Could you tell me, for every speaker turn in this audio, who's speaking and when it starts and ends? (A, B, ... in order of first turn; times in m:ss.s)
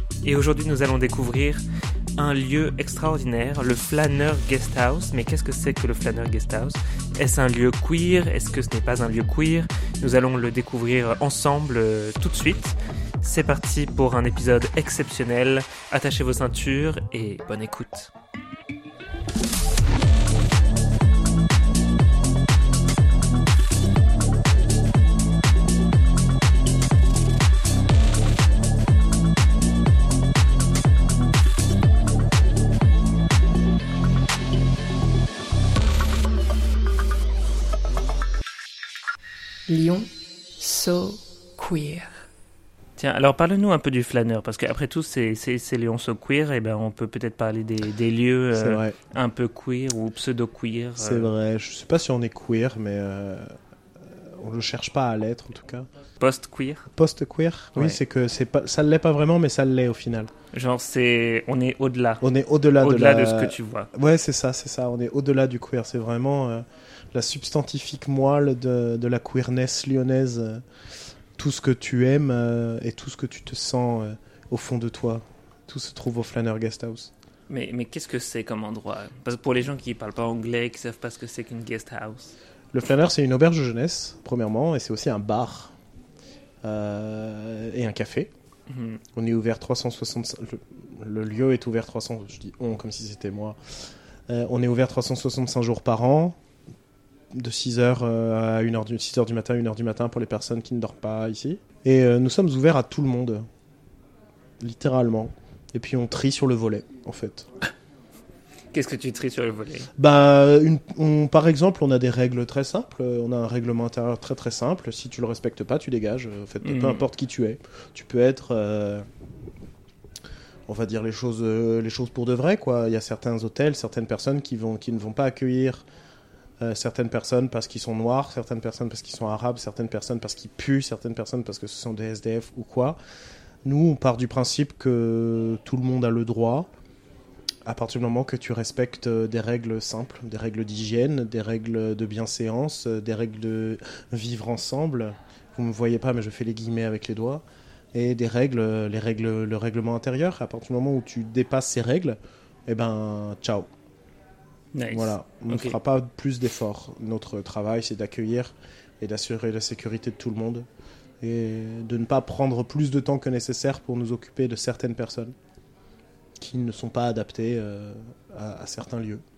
0:00.2-0:01.6 A
0:02.2-0:18.1 A
0:39.7-0:42.1 B
0:43.0-0:51.3 A
0:48.5-0:49.0 C
0:51.0-0:53.5 C
0:54.0-0:55.9 C
0:56.2-0:56.9 A
0:57.0-1:00.3 C
0:57.7-0:58.0 A
1:00.5-1:02.2 A
1:02.2-1:10.6 C
1:02.8-1:03.9 A
1:11.4-1:17.1 C
1:17.5-1:22.3 A
1:22.7-1:25.7 C
1:26.6-1:28.3 C
1:28.7-1:29.0 A
1:29.2-1:33.6 C
1:34.3-1:36.4 C
1:37.3-1:43.4 C
1:44.6-1:47.5 C
1:48.7-1:49.9 A
1:50.0-1:59.0 C
1:56.6-1:57.0 A
2:00.7-2:05.8 C
2:06.6-2:13.0 C
2:13.6-2:16.7 C
2:17.6-2:33.7 C
2:34.7-2:35.8 A
2:34.9-2:40.6 C
2:41.2-2:45.3 C
2:46.4-2:49.2 C